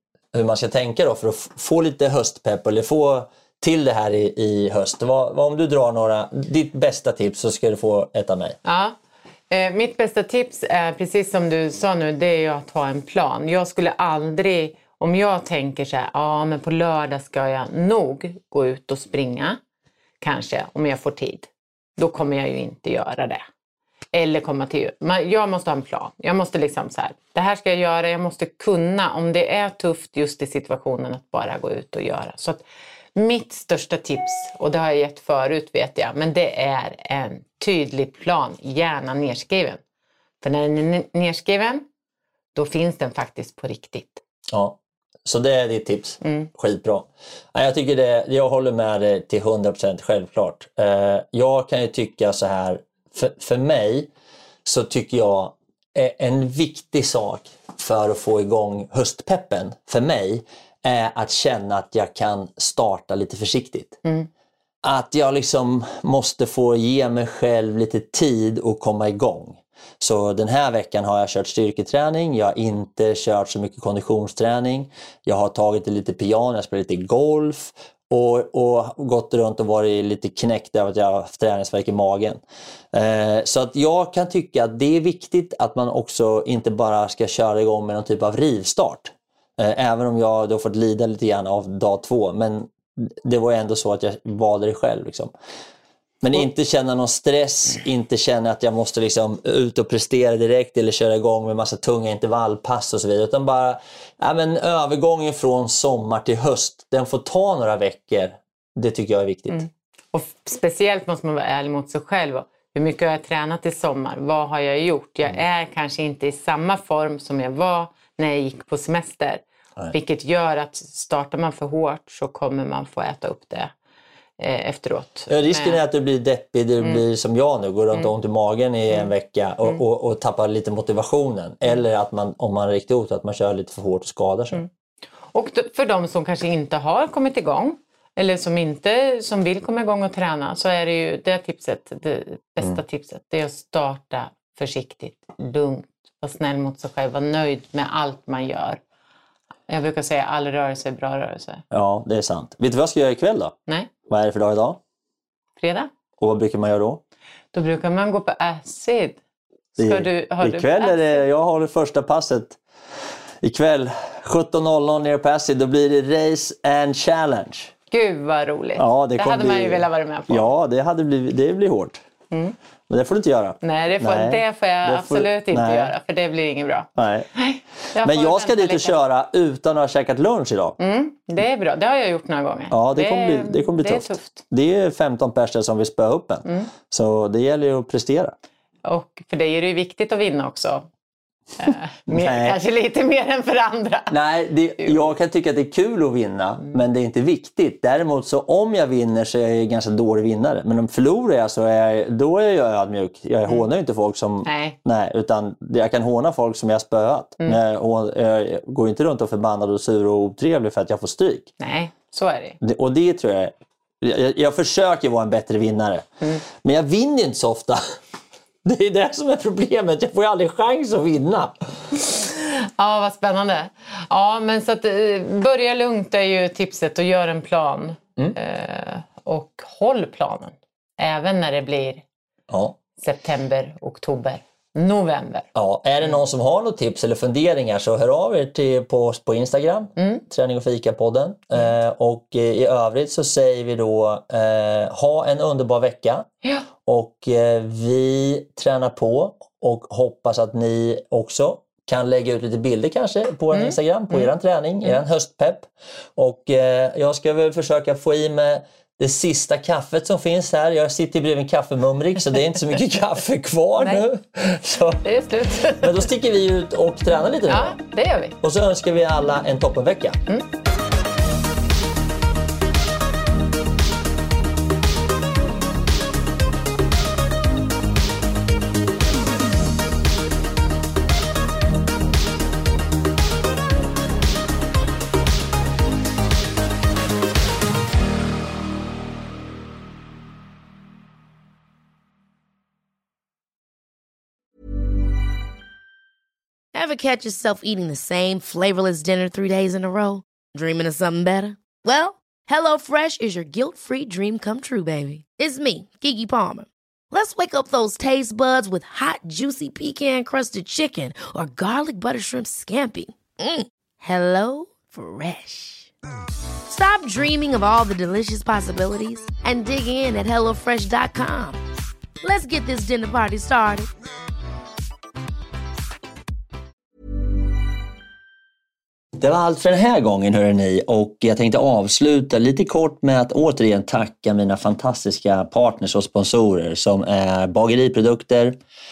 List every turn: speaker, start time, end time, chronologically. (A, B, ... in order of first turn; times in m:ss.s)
0:00.3-0:08.6 A
0:08.6-0:09.0 B
0:09.5-0:19.6 B
0:20.2-0:23.4 B
0:24.1-0:39.8 B
0:40.4-0:41.8 B
0:42.5-0:44.2 B
0:44.5-0:54.1 A
0:46.2-0:46.5 B
0:54.6-1:04.0 A
1:04.8-1:22.4 A
1:22.9-1:35.3 A
1:36.2-1:49.6 A
1:49.5-2:03.7 B
2:04.4-2:05.8 B
2:05.3-2:14.6 A
2:15.3-2:28.8 B
2:29.7-2:31.6 B
2:31.7-2:33.5 A
2:34.1-2:34.8 A
2:35.6-2:35.9 B
2:36.2-2:37.0 A
2:37.5-2:39.2 B
2:39.8-2:41.2 B
2:39.8-2:42.6 A
2:43.4-2:47.7 A
2:47.9-2:50.5 B
2:48.8-2:52.0 A
2:52.9-2:55.9 A
2:53.6-2:59.0 B
2:57.0-2:57.3 A
2:58.0-3:00.8 A
3:00.8-3:04.4 B
3:02.7-3:08.3 A
3:08.8-3:10.9 B
3:11.6-3:14.2 B
3:12.1-3:12.6 A
3:14.1-3:31.5 A
3:14.8-3:15.1 B
3:24.4-3:24.8 B
3:31.6-3:32.6 B
3:32.6-3:36.1 A
3:36.6-3:37.8 A
3:38.6-3:41.6 A
3:42.1-3:52.0 B
3:52.5-3:52.8 A
3:53.0-3:55.5 B
3:55.5-4:06.3 A
4:00.0-4:00.2 B
4:06.8-4:25.0 A
4:13.5-4:14.3 B
4:23.8-4:24.0 B
4:25.0-4:26.1 B
4:25.6-4:27.8 A
4:27.5-4:28.4 B
4:28.4-4:30.2 A
4:56.7-5:15.9 C
5:16.7-5:21.6 C
5:22.2-5:23.9 C
5:29.2-5:38.6 A